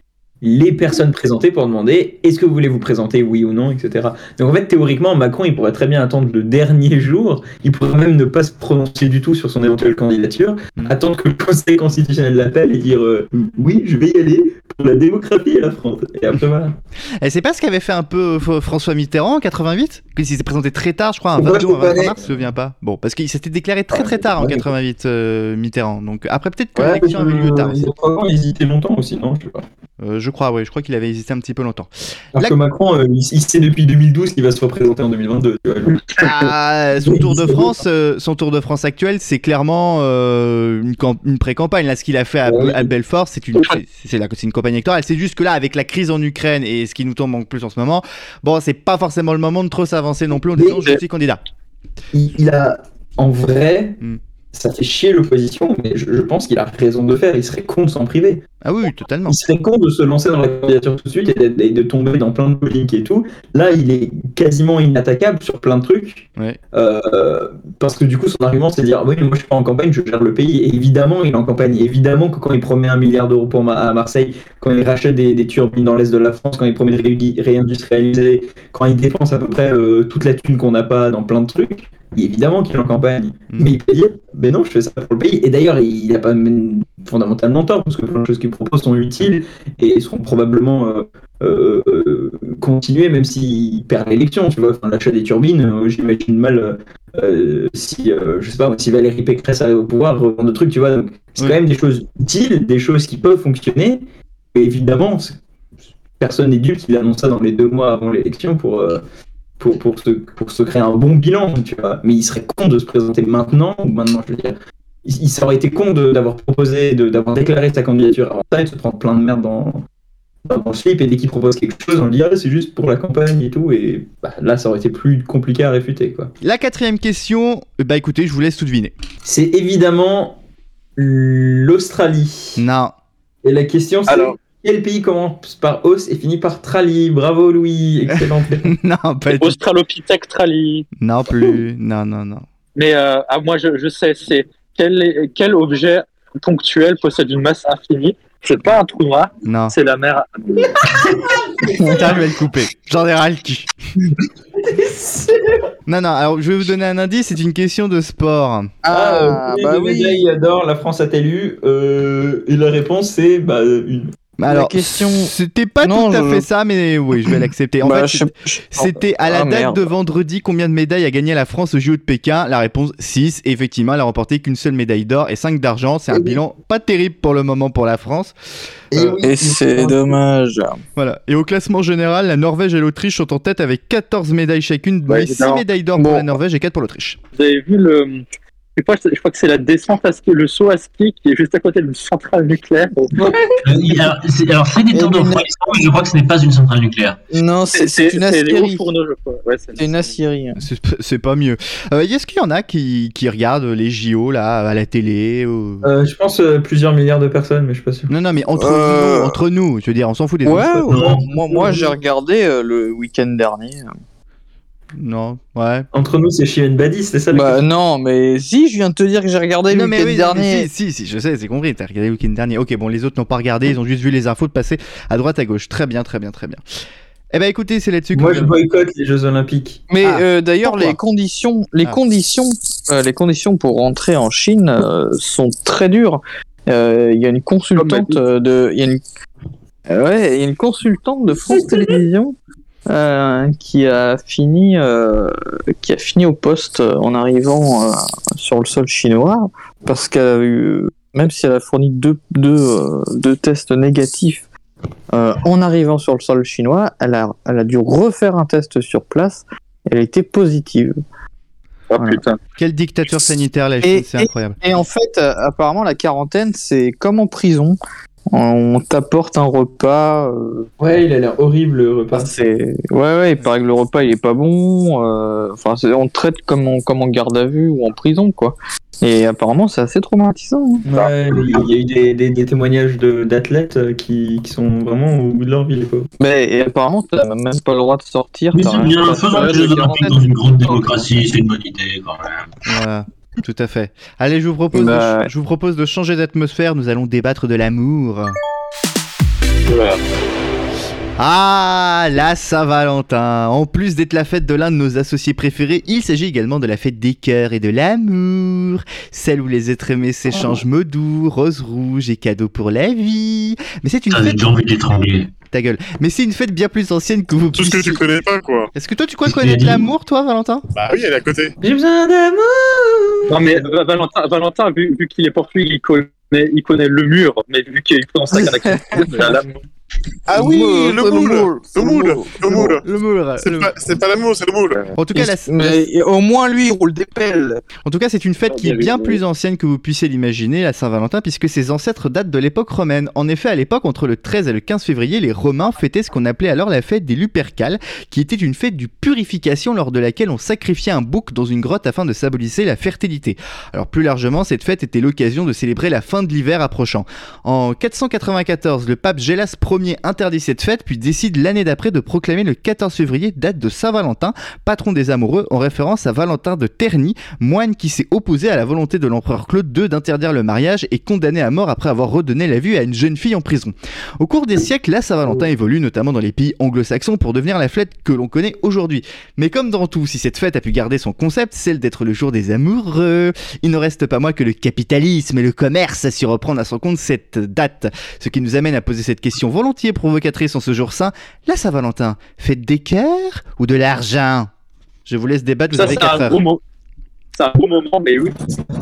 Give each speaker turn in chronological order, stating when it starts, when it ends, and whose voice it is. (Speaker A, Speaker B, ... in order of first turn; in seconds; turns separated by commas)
Speaker A: 0.4-16.8, Speaker B: 17.2-27.9, Speaker A: 21.4-22.4, Speaker A: 23.9-24.7, Speaker A: 26.8-29.6, Speaker B: 30.0-32.6, Speaker A: 32.4-36.1, Speaker B: 36.2-51.4, Speaker A: 37.0-37.8, Speaker A: 42.5-42.9, Speaker A: 50.6-50.9, Speaker A: 52.1-54.0, Speaker A: 54.5-58.4, Speaker B: 58.6-59.4, Speaker A: 59.3-104.0, Speaker B: 83.5-83.8, Speaker A: 104.5-105.4, Speaker A: 106.2-109.0, Speaker A: 109.6-119.8, Speaker A: 120.5-126.3, Speaker B: 126.4-128.9, Speaker A: 129.2-130.4, Speaker A: 131.0-132.6, Speaker B: 132.6-132.9, Speaker A: 133.4-138.8, Speaker C: 134.1-134.4, Speaker B: 138.1-139.6, Speaker C: 139.3-140.9, Speaker B: 141.0-142.4, Speaker C: 142.8-150.9, Speaker B: 149.4-149.8, Speaker D: 151.7-151.9, Speaker B: 151.8-153.7, Speaker A: 154.6-155.6, Speaker B: 155.9-158.8, Speaker D: 158.8-160.2, Speaker A: 158.9-164.1, Speaker B: 164.4-178.3, Speaker D: 164.5-166.5, Speaker D: 167.8-169.9, Speaker B: 178.9-179.2, Speaker A: 178.9-180.2, Speaker D: 179.2-180.8, Speaker B: 181.0-187.2, Speaker C: 185.1-185.6, Speaker D: 186.0-186.3, Speaker C: 187.3-188.2, Speaker C: 188.8-193.2, Speaker E: 193.6-197.2, Speaker D: 194.9-195.4, Speaker D: 197.3-198.8, Speaker C: 197.7-200.2, Speaker D: 199.8-200.6, Speaker B: 200.6-205.9, Speaker A: 205.8-208.1, Speaker B: 208.1-210.9, Speaker D: 208.6-209.4, Speaker D: 210.4-213.9, Speaker A: 210.9-211.9, Speaker B: 215.0-215.9, Speaker A: 215.9-217.6, Speaker D: 217.3-220.7, Speaker B: 219.7-226.6, Speaker B: 227.3-228.6, Speaker A: 228.1-229.9, Speaker D: 229.9-239.0, Speaker B: 230.0-231.0, Speaker C: 237.8-238.2, Speaker D: 239.9-242.3, Speaker D: 242.9-254.5, Speaker D: 255.1-261.0, Speaker C: 261.9-262.4, Speaker B: 262.6-264.6, Speaker D: 263.8-267.8, Speaker D: 268.3-270.7, Speaker A: 270.8-272.3, Speaker D: 272.1-280.9, Speaker A: 280.9-286.1, Speaker D: 286.2-291.3, Speaker E: 288.5-292.5, Speaker B: 292.7-298.4, Speaker D: 294.7-295.3, Speaker C: 299.7-300.0, Speaker B: 301.2-314.5, Speaker E: 314.1-315.3, Speaker B: 315.5-318.0, Speaker F: 317.5-318.7, Speaker B: 318.8-320.6, Speaker E: 319.2-319.9, Speaker F: 320.8-321.6, Speaker A: 321.6-323.6, Speaker C: 323.3-329.6, Speaker D: 328.3-329.4, Speaker F: 330.3-332.8, Speaker D: 330.3-332.8, Speaker B: 332.6-333.7, Speaker F: 333.4-334.8, Speaker B: 334.9-335.8, Speaker D: 335.1-337.6, Speaker B: 337.9-394.5, Speaker C: 338.5-339.2, Speaker B: 395.1-396.4, Speaker C: 395.7-396.6, Speaker C: 397.4-398.4